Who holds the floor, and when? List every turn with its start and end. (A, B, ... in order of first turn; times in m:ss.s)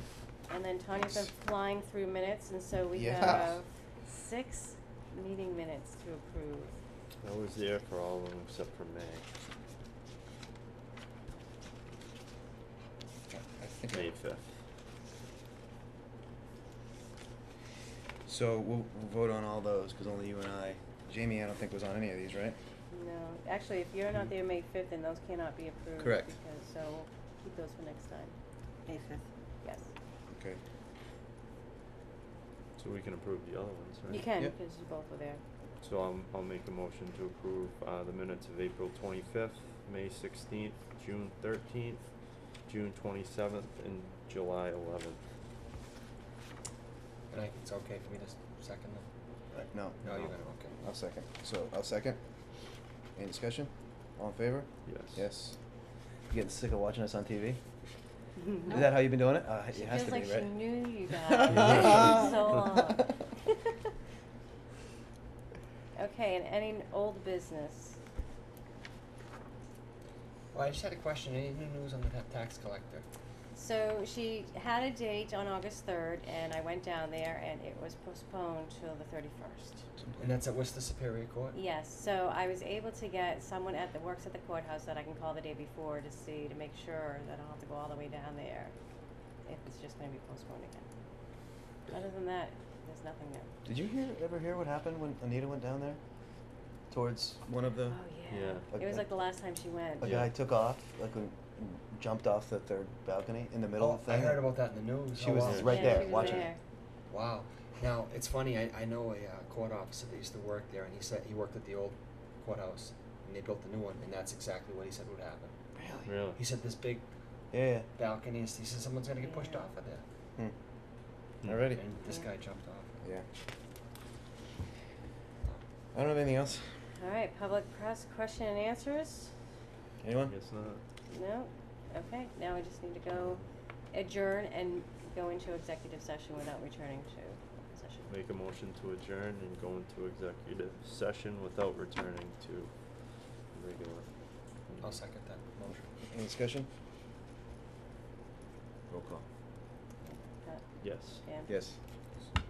0:00.5-0:06.8 A
0:03.0-0:03.5 B
0:07.2-0:09.3 C
0:13.4-0:14.0 D
0:13.9-0:14.4 C
0:18.3-0:22.6 B
0:22.9-0:28.3 A
0:26.0-0:26.3 B
0:29.6-0:29.9 A
0:30.3-0:30.6 B
0:32.8-0:34.3 C
0:34.1-0:35.4 A
0:35.8-0:42.0 C
0:42.7-0:45.2 C
0:47.3-0:49.1 D
0:49.5-0:50.2 B
0:50.0-0:50.8 D
0:50.8-0:52.2 B
0:53.2-0:55.6 B
0:54.9-0:55.2 C
0:56.3-0:57.6 B
0:58.6-1:00.6 B
0:59.7-1:03.8 A
1:01.3-1:02.2 B
1:01.5-1:02.4 C
1:06.0-1:08.0 A
1:10.5-1:13.1 D
1:13.5-1:19.8 A
1:20.2-1:21.6 D
1:21.5-1:28.7 A
1:29.4-1:30.9 A
1:31.9-1:33.5 A
1:33.6-1:36.0 B
1:36.9-1:38.0 B
1:37.9-1:40.1 A
1:38.3-1:38.7 C
1:38.7-1:39.0 B
1:40.0-1:44.5 B
1:40.0-1:40.3 C
1:43.8-1:46.5 D
1:45.1-1:46.5 B
1:45.6-1:46.6 A
1:47.1-1:55.5 D
1:55.8-1:56.1 B
1:56.1-1:56.4 C
1:56.4-1:57.0 D
1:57.5-1:57.9 B
1:58.0-2:00.0 D
1:59.2-1:59.6 A
2:01.4-2:01.8 B
2:01.8-2:03.0 D
2:05.9-2:06.6 B
2:07.0-2:09.3 A
2:10.0-2:10.4 B
2:10.3-2:10.8 C
2:11.1-2:18.1 A
2:18.1-2:22.7 C
2:23.5-2:24.1 C
2:24.7-2:25.0 C
2:24.8-2:25.9 D
2:26.1-2:26.7 B
2:28.9-2:29.2 B
2:30.1-2:31.5 A
2:30.8-2:31.2 C
2:31.5-2:31.8 B